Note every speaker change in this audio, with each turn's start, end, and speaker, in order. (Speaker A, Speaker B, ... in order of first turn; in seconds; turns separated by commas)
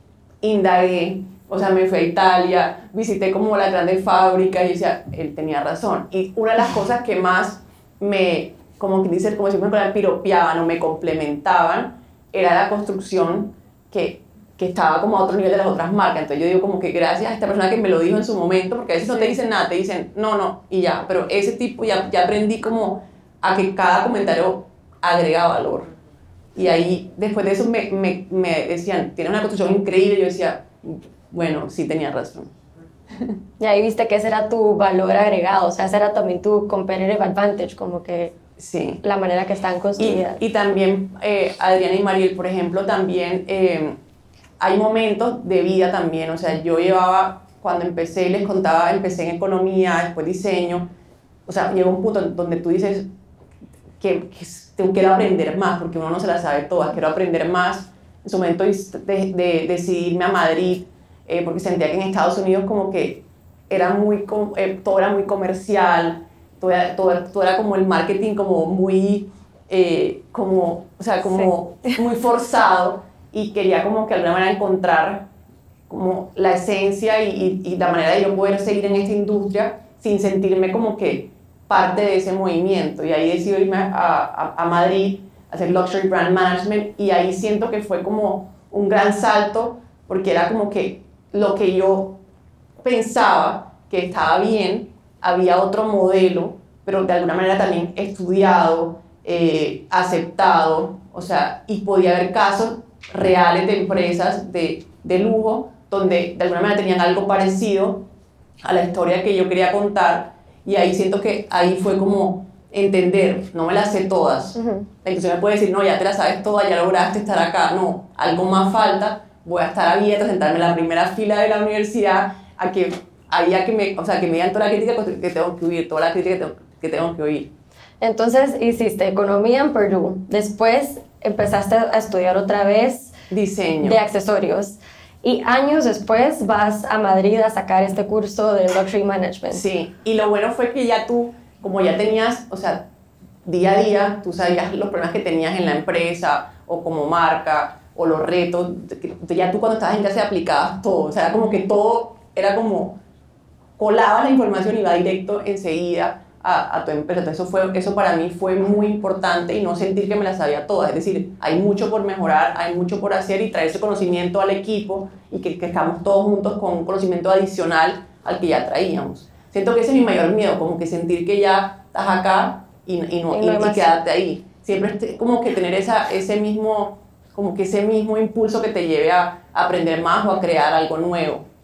Speaker A: 0.4-25.9, Speaker A: 26.5-32.5, Speaker B: 33.6-38.4, Speaker A: 38.6-39.0, Speaker B: 39.0-40.4, Speaker A: 40.0-44.0, Speaker A: 44.6-50.9, Speaker A: 51.5-53.1, Speaker A: 54.0-75.3, Speaker A: 75.9-92.2, Speaker A: 92.8-108.0, Speaker A: 108.6-127.5, Speaker B: 114.5-114.9, Speaker B: 128.0-133.1, Speaker A: 133.3-134.0, Speaker B: 133.8-139.6, Speaker A: 139.5-142.9, Speaker A: 143.4-153.0, Speaker A: 153.8-181.4, Speaker B: 173.3-173.9